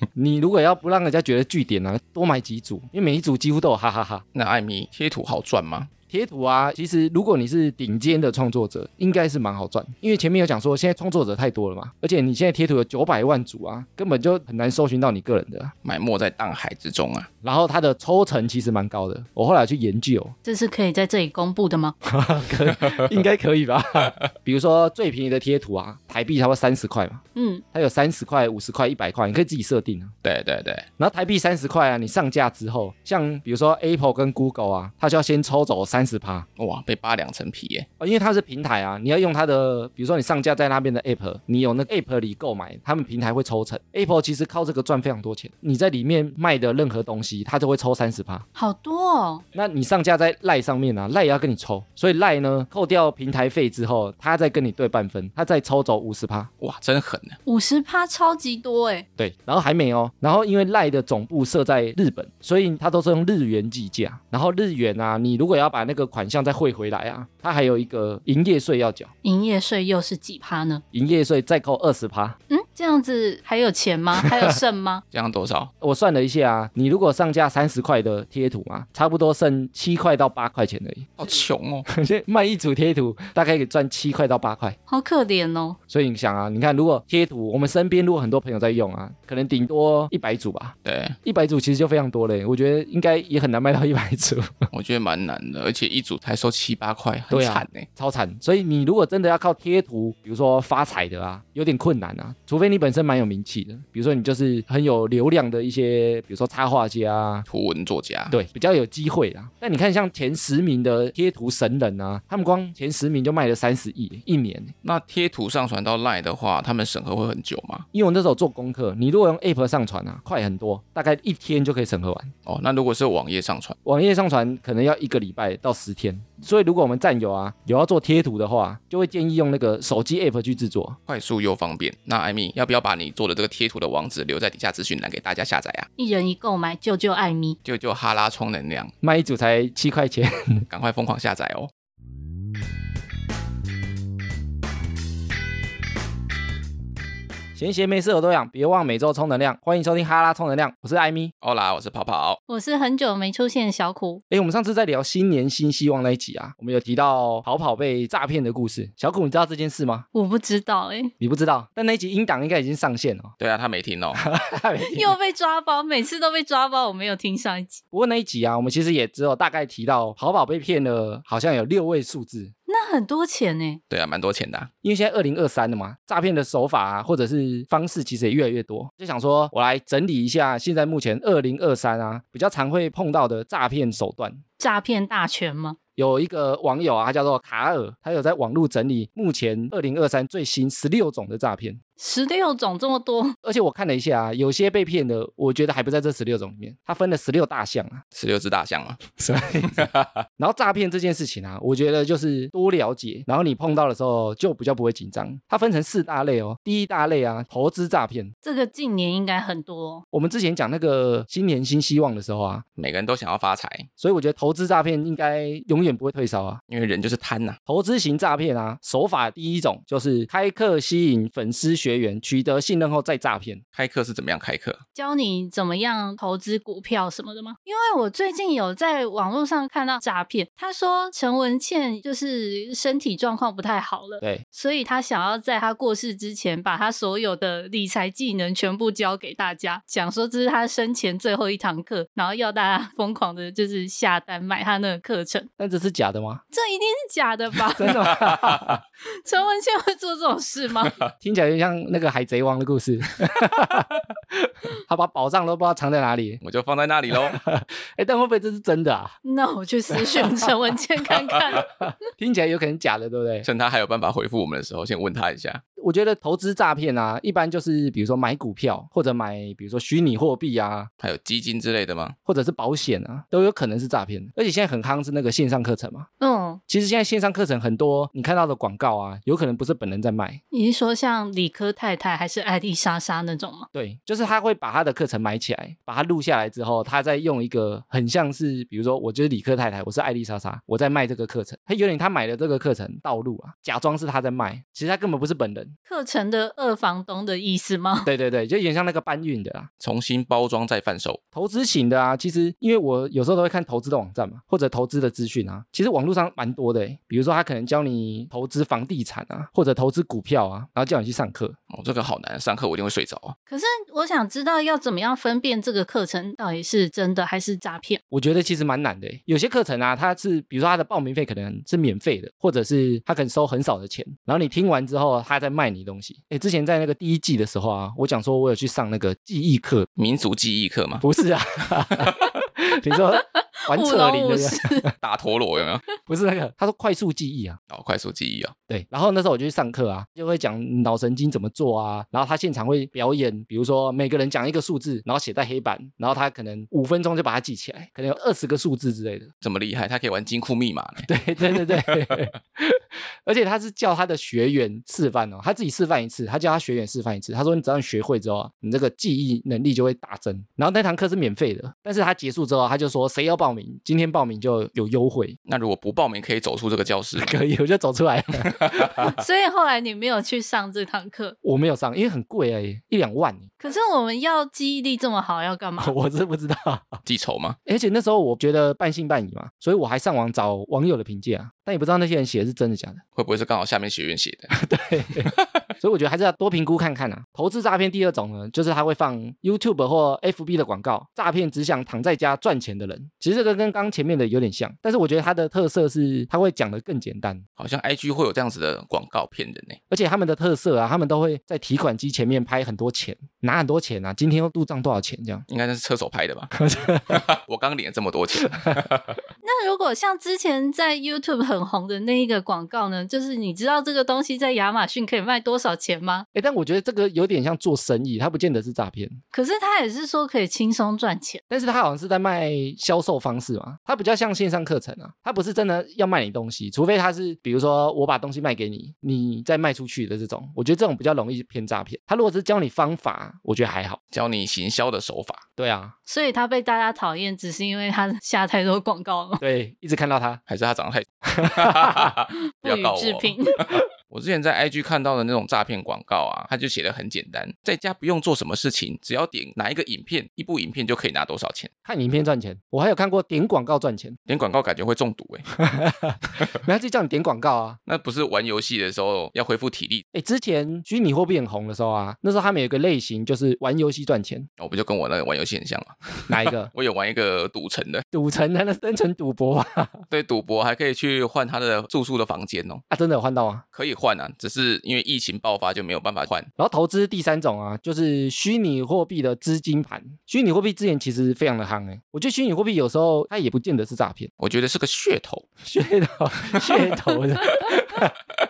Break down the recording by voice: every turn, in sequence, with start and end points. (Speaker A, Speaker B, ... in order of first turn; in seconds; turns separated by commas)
Speaker A: 0.1-4.2, Speaker B: 4.3-5.9, Speaker A: 6.1-15.7, Speaker B: 15.8-17.3, Speaker A: 17.4-20.4, Speaker C: 20.4-22.0, Speaker A: 22.1-27.2, Speaker B: 22.8-23.1, Speaker C: 27.4-27.6, Speaker A: 27.7-30.1, Speaker B: 30.2-30.9, Speaker A: 31.0-36.5, Speaker B: 36.6-37.9, Speaker A: 38.0-48.5, Speaker C: 48.6-49.4, Speaker A: 49.5-56.5, Speaker B: 56.6-57.4, Speaker C: 57.5-59.1, Speaker A: 59.2-69.1, Speaker C: 69.2-70.8, Speaker A: 70.9-72.4, Speaker C: 72.5-75.0, Speaker A: 74.2-74.5, Speaker B: 75.1-75.7, Speaker A: 75.8-81.1, Speaker B: 81.2-81.9, Speaker A: 81.9-84.8, Speaker C: 84.9-85.8, Speaker A: 85.9-94.7, Speaker B: 90.8-91.2, Speaker B: 94.7-97.9, Speaker A: 97.3-107.5, Speaker B: 107.5-108.3, Speaker A: 108.3-114.7, Speaker B: 114.8-117.9, Speaker A: 117.9-122.3, Speaker B: 122.5-123.8, Speaker A: 123.8-131.0, Speaker B: 131.1-135.9, Speaker C: 136.0-137.6, Speaker B: 137.7-138.9, Speaker A: 139.0-140.7, Speaker B: 140.7-141.7, Speaker A: 147.6-151.3, Speaker B: 151.4-152.4, Speaker C: 152.5-154.2, Speaker A: 154.3-160.1, Speaker C: 160.1-161.1, Speaker A: 161.2-163.3, Speaker B: 163.4-164.2, Speaker A: 164.2-165.2, Speaker C: 164.9-167.8, Speaker A: 167.9-172.5, Speaker C: 172.7-173.8, Speaker B: 173.9-174.7, Speaker A: 174.8-184.4, Speaker C: 184.6-185.8, Speaker A: 186.0-191.8, Speaker C: 192.0-193.4, Speaker A: 193.4-198.0, Speaker B: 198.2-199.0, Speaker A: 199.2-208.3, Speaker B: 199.6-200.2, Speaker C: 208.4-210.0, Speaker A: 210.1-212.6, Speaker B: 212.8-213.9, Speaker A: 214.0-216.6, Speaker B: 216.7-217.6, Speaker A: 217.7-223.6, Speaker B: 223.8-224.8, Speaker C: 224.9-245.5, Speaker A: 245.6-246.4, Speaker C: 246.5-248.3, Speaker A: 247.8-248.8, Speaker C: 249.1-251.0, Speaker A: 251.2-256.4, Speaker B: 256.4-257.4, Speaker A: 257.1-259.2, Speaker C: 259.2-261.7, Speaker A: 260.1-260.5, Speaker A: 261.6-263.5, Speaker B: 263.4-265.6, Speaker A: 265.8-270.9, Speaker B: 271.0-272.2, Speaker A: 272.3-276.1, Speaker C: 276.2-276.6, Speaker A: 276.7-280.4, Speaker C: 280.5-283.7, Speaker A: 283.7-295.7, Speaker C: 295.9-298.1, Speaker A: 298.1-299.7, Speaker B: 299.8-301.2, Speaker A: 301.3-311.6, Speaker B: 311.7-313.4, Speaker C: 313.5-318.0, Speaker A: 318.1-329.9, Speaker B: 330.0-331.0, Speaker A: 331.0-334.9, Speaker B: 331.9-332.2, Speaker C: 333.6-334.9, Speaker B: 335.0-335.8, Speaker A: 336.1-337.6, Speaker B: 337.7-338.5, Speaker A: 338.7-349.3, Speaker B: 349.4-352.2, Speaker A: 351.1-365.4, Speaker B: 365.5-367.3, Speaker A: 367.2-369.1, Speaker B: 368.4-369.0, Speaker C: 369.0-371.4, Speaker A: 371.4-373.5, Speaker C: 373.6-375.9, Speaker A: 375.8-377.0, Speaker B: 377.1-377.6, Speaker A: 377.7-383.0, Speaker B: 383.2-384.6, Speaker A: 384.5-397.4, Speaker B: 385.2-385.5, Speaker B: 397.6-399.8, Speaker A: 399.9-405.4, Speaker B: 405.5-406.6, Speaker A: 406.6-407.2, Speaker B: 407.1-409.2, Speaker C: 409.4-416.3, Speaker A: 416.4-419.2, Speaker C: 419.3-421.4, Speaker A: 421.5-434.0, Speaker B: 434.1-435.4, Speaker A: 435.6-435.9, Speaker C: 436.1-439.4, Speaker A: 439.4-440.4, Speaker B: 440.5-451.7, Speaker A: 441.3-442.2, Speaker C: 442.6-443.6, Speaker A: 451.9-454.2, Speaker B: 454.3-455.5, Speaker A: 455.6-457.8, Speaker B: 457.9-460.1, Speaker A: 460.1-464.5, Speaker B: 464.6-468.1, Speaker A: 466.3-466.7, Speaker A: 468.1-470.1, Speaker B: 470.1-472.8, Speaker A: 472.9-473.6, Speaker B: 473.7-476.5, Speaker A: 476.6-484.3, Speaker B: 484.4-485.5, Speaker A: 485.6-488.1